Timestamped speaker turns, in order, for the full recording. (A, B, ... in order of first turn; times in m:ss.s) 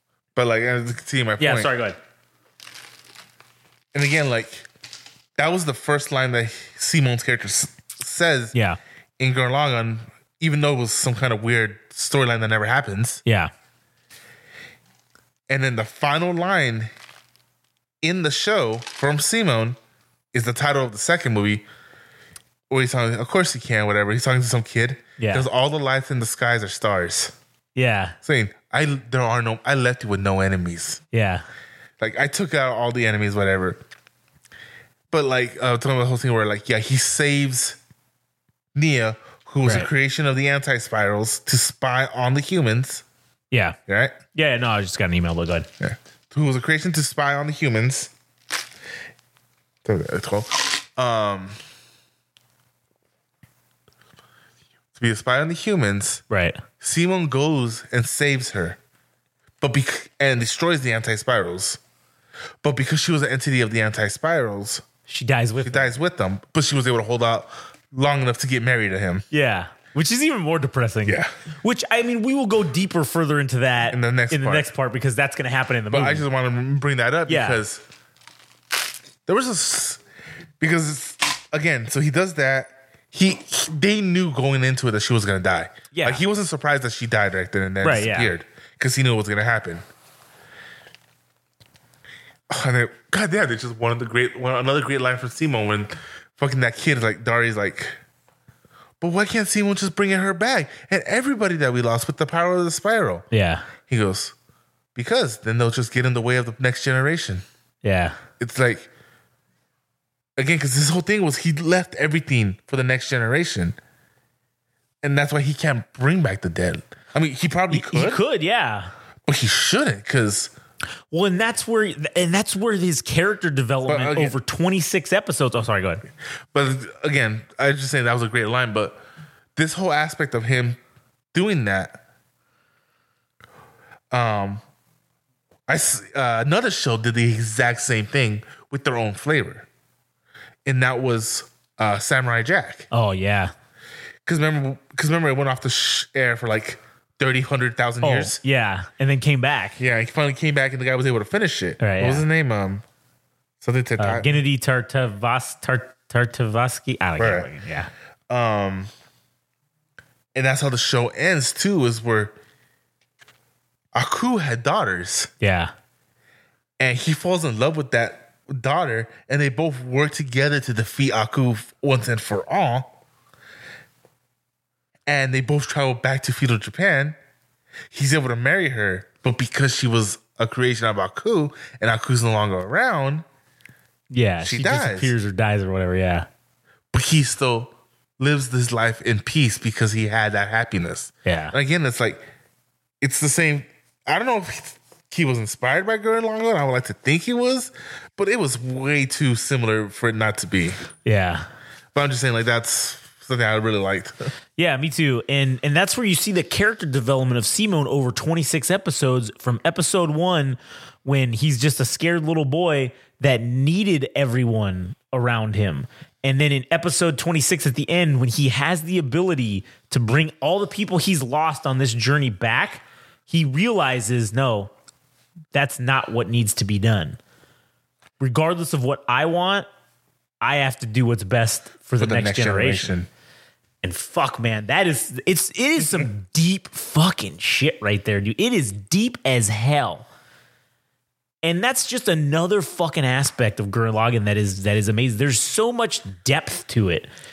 0:00.4-0:01.7 A
0:01.4-0:02.0 B
0:03.9-0:04.7 A
0:05.4-0:08.5 A
0:08.5-0:08.8 B
0:09.2-0:13.2 A
0:13.2-0:13.5 B
0:15.5-0:16.9 A
0:18.0-0:19.8 A
0:20.3-0:21.7 A
0:22.7-0:27.4 A
0:25.2-0:25.5 B
0:27.8-0:28.2 B
0:28.2-0:31.0 A
0:31.1-0:31.4 B
0:32.0-0:33.8 A
0:35.1-0:37.8 A
0:38.8-0:43.0 A
0:39.6-0:39.9 B
0:43.5-0:43.8 B
0:43.9-0:44.2 A
0:44.3-0:45.7 B
0:45.8-0:48.1 A
0:49.8-0:51.6 A
0:55.0-0:56.2 A
0:56.3-0:56.6 B
0:56.8-0:58.8 A
0:59.6-1:01.8 A
1:02.6-1:04.8 A
1:05.1-1:05.9 B
1:05.6-1:09.2 A
1:09.3-1:16.2 B
1:11.1-1:11.3 A
1:13.9-1:14.7 A
1:15.9-1:17.8 A
1:17.3-1:17.6 B
1:19.3-1:20.0 A
1:20.6-1:29.8 A
1:25.9-1:26.2 B
1:27.8-1:28.3 B
1:32.5-1:38.0 A
1:39.0-1:43.2 A
1:43.3-1:43.7 B
1:43.9-1:44.3 A
1:45.0-1:47.4 A
1:47.8-1:48.2 B
1:48.4-1:48.9 A
1:50.4-1:53.8 A
1:55.0-1:58.2 A
1:57.7-1:58.9 B
1:59.3-2:00.5 A
2:01.1-2:06.0 B
2:03.9-2:04.4 A
2:06.5-2:09.0 A
2:09.6-2:10.8 A
2:11.3-2:12.0 A
2:14.1-2:14.6 A
2:15.7-2:19.7 A
2:20.7-2:22.9 A
2:22.9-2:23.5 B
2:24.3-2:28.4 A
2:28.0-2:29.8 B
2:29.8-2:32.8 A
2:31.8-2:32.3 B
2:33.6-2:34.3 A
2:34.0-2:37.9 B
2:37.2-2:37.5 A
2:38.3-2:38.9 A
2:40.4-2:42.3 A
2:43.9-2:45.3 A
2:45.4-2:45.7 B
2:46.8-2:52.9 A
2:55.1-2:57.2 A
2:57.9-3:03.2 A
3:04.1-3:06.3 B
3:04.4-3:05.2 A
3:06.9-3:12.2 A
3:11.2-3:11.6 B
3:13.0-3:20.8 A
3:21.0-3:21.5 B
3:22.0-3:24.3 A
3:24.6-3:44.7 B
3:45.5-3:47.2 B
3:48.2-3:49.7 B
3:50.4-3:53.0 B
3:52.0-3:53.1 A
3:53.8-4:00.1 B
4:01.4-4:07.1 B